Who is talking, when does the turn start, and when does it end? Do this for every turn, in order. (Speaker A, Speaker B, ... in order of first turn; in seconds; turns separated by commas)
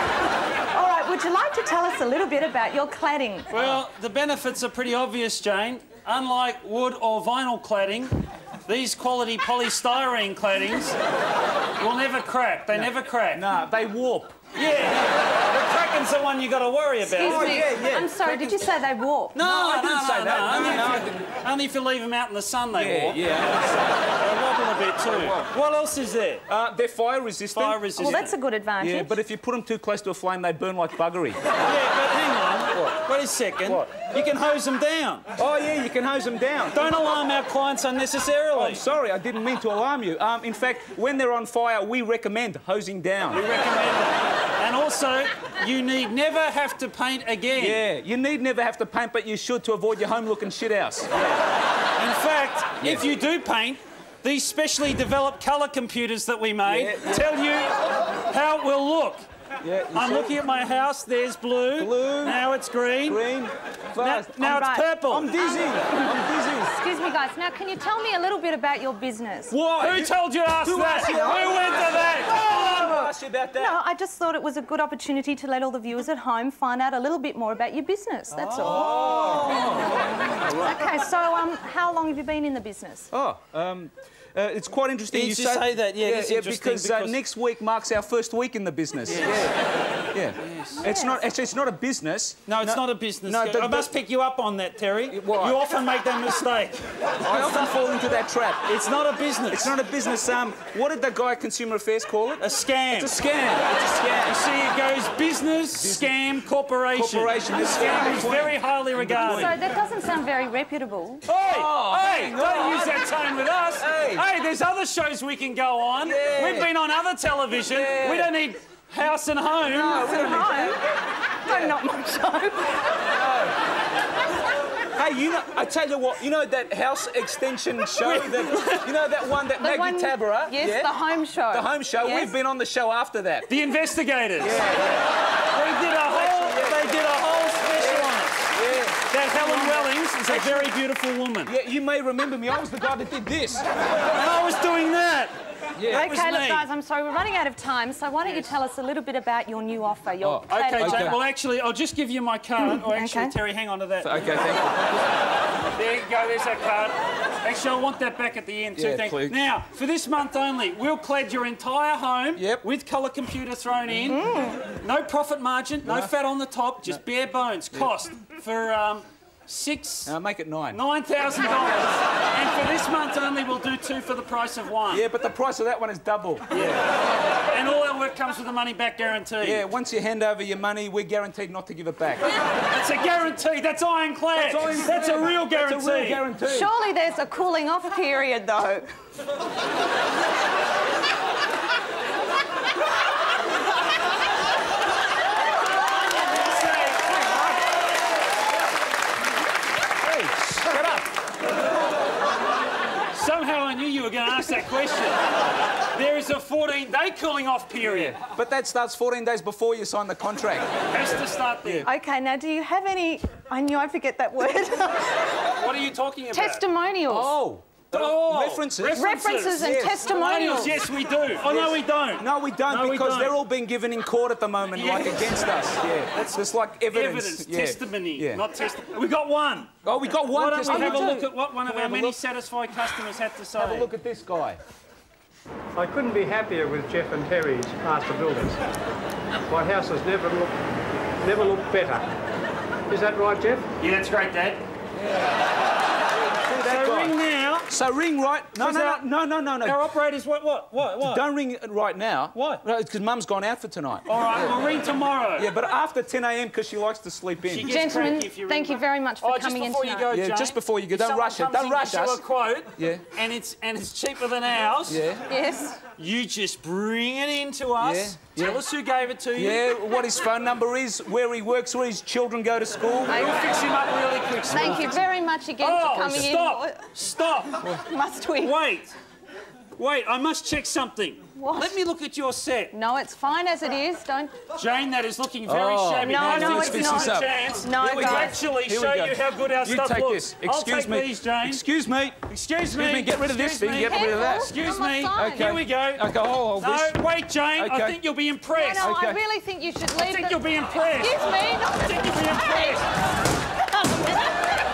Speaker A: 0.7-3.5, Speaker B: 3.5-11.0, Speaker B: 11.8-13.4, Speaker C: 12.7-14.4, Speaker B: 14.6-17.7, Speaker A: 17.1-19.4, Speaker C: 17.1-18.7, Speaker B: 19.3-26.4, Speaker C: 19.4-21.3, Speaker C: 22.7-23.9, Speaker C: 25.1-25.5, Speaker C: 26.5-28.2, Speaker B: 27.5-28.4, Speaker A: 28.0-29.2, Speaker C: 28.8-31.4, Speaker B: 31.6-35.3, Speaker C: 35.4-36.9, Speaker B: 36.7-38.8, Speaker C: 38.5-43.5, Speaker B: 43.3-47.8, Speaker C: 47.5-51.3, Speaker B: 52.0-57.8, Speaker C: 56.6-57.3, Speaker B: 58.3-59.2, Speaker C: 59.6-60.4, Speaker B: 59.9-63.2, Speaker C: 61.8-62.4, Speaker C: 63.1-66.8, Speaker B: 64.0-65.3, Speaker A: 64.4-69.6, Speaker C: 69.5-73.8, Speaker B: 69.7-72.5, Speaker A: 71.0-71.8, Speaker A: 72.5-83.1, Speaker C: 78.3-80.8, Speaker B: 78.8-79.7, Speaker C: 83.1-89.6, Speaker B: 85.1-87.2, Speaker B: 89.1-89.5, Speaker C: 90.1-93.9, Speaker B: 90.4-90.8, Speaker A: 90.8-91.2, Speaker B: 92.5-97.6, Speaker C: 95.1-95.6, Speaker C: 97.2-98.7, Speaker B: 98.7-99.7, Speaker C: 99.5-104.4, Speaker B: 102.4-103.2, Speaker B: 104.3-109.6, Speaker C: 105.7-106.1, Speaker C: 106.9-109.6, Speaker A: 109.2-111.2, Speaker B: 111.3-120.5, Speaker C: 111.4-113.1, Speaker C: 113.8-114.2, Speaker C: 116.0-116.7, Speaker C: 117.7-118.3, Speaker A: 119.7-120.8, Speaker C: 119.7-120.8, Speaker A: 121.4-123.0, Speaker C: 123.0-123.6, Speaker C: 124.9-131.0, Speaker B: 128.0-128.9, Speaker A: 129.6-132.3, Speaker C: 131.5-133.5, Speaker B: 133.5-134.7, Speaker C: 134.4-135.1, Speaker B: 135.5-138.5, Speaker C: 136.1-136.9, Speaker C: 137.8-140.7, Speaker B: 139.1-141.5, Speaker C: 141.4-143.7, Speaker B: 144.1-145.3, Speaker C: 145.8-146.1, Speaker A: 145.9-151.2, Speaker B: 145.9-146.7, Speaker C: 150.2-151.2, Speaker B: 150.5-154.2, Speaker A: 152.8-153.3, Speaker C: 154.0-155.1, Speaker B: 155.8-170.1, Speaker C: 158.8-159.4, Speaker C: 162.4-162.6, Speaker A: 164.1-164.6, Speaker C: 165.8-166.1, Speaker C: 170.1-170.8, Speaker B: 170.7-175.1, Speaker C: 174.9-176.8, Speaker B: 176.5-176.8, Speaker B: 177.5-179.6, Speaker C: 179.4-182.3, Speaker B: 182.6-186.3, Speaker C: 184.3-186.7, Speaker A: 186.4-188.9, Speaker B: 196.3-197.6, Speaker C: 200.4-201.1, Speaker B: 203.1-205.3, Speaker B: 205.9-208.2, Speaker C: 207.8-210.7, Speaker B: 210.9-211.9, Speaker A: 211.8-215.3, Speaker B: 215.6-216.6, Speaker A: 216.3-217.4, Speaker C: 217.1-220.0, Speaker B: 217.9-223.4, Speaker A: 218.9-220.8, Speaker C: 221.4-228.4, Speaker B: 224.7-225.5, Speaker B: 226.1-226.4, Speaker B: 226.9-229.7, Speaker C: 229.8-232.2, Speaker B: 230.3-233.9, Speaker A: 230.7-231.2, Speaker C: 233.6-234.6, Speaker D: 235.8-238.6, Speaker D: 239.5-240.6, Speaker D: 241.2-242.1, Speaker D: 242.9-243.7, Speaker B: 243.8-244.6, Speaker C: 244.9-245.4, Speaker C: 246.3-247.2, Speaker B: 246.6-247.7, Speaker C: 247.7-249.8, Speaker B: 248.6-249.1, Speaker B: 249.6-251.2, Speaker C: 251.0-254.2, Speaker B: 252.3-252.6, Speaker B: 254.1-255.5, Speaker C: 255.4-257.8, Speaker B: 257.5-265.1, Speaker A: 257.6-260.1, Speaker C: 260.1-262.2, Speaker C: 262.8-263.1, Speaker C: 264.9-265.2, Speaker A: 265.2-265.8, Speaker B: 266.0-269.7, Speaker C: 267.8-268.6, Speaker C: 269.4-273.3, Speaker B: 273.1-277.7, Speaker A: 273.1-273.4, Speaker A: 274.5-276.9, Speaker C: 276.0-276.3, Speaker A: 277.7-278.6, Speaker B: 278.4-278.9, Speaker B: 279.8-282.7, Speaker A: 281.4-281.8, Speaker A: 282.7-284.4, Speaker B: 284.5-291.6, Speaker C: 285.5-294.6, Speaker A: 286.0-288.4, Speaker B: 292.3-298.9, Speaker A: 293.8-295.6, Speaker C: 295.1-297.0, Speaker C: 297.6-298.0, Speaker A: 298.5-302.9, Speaker C: 298.8-299.2, Speaker B: 299.9-302.9, Speaker A: 303.6-304.4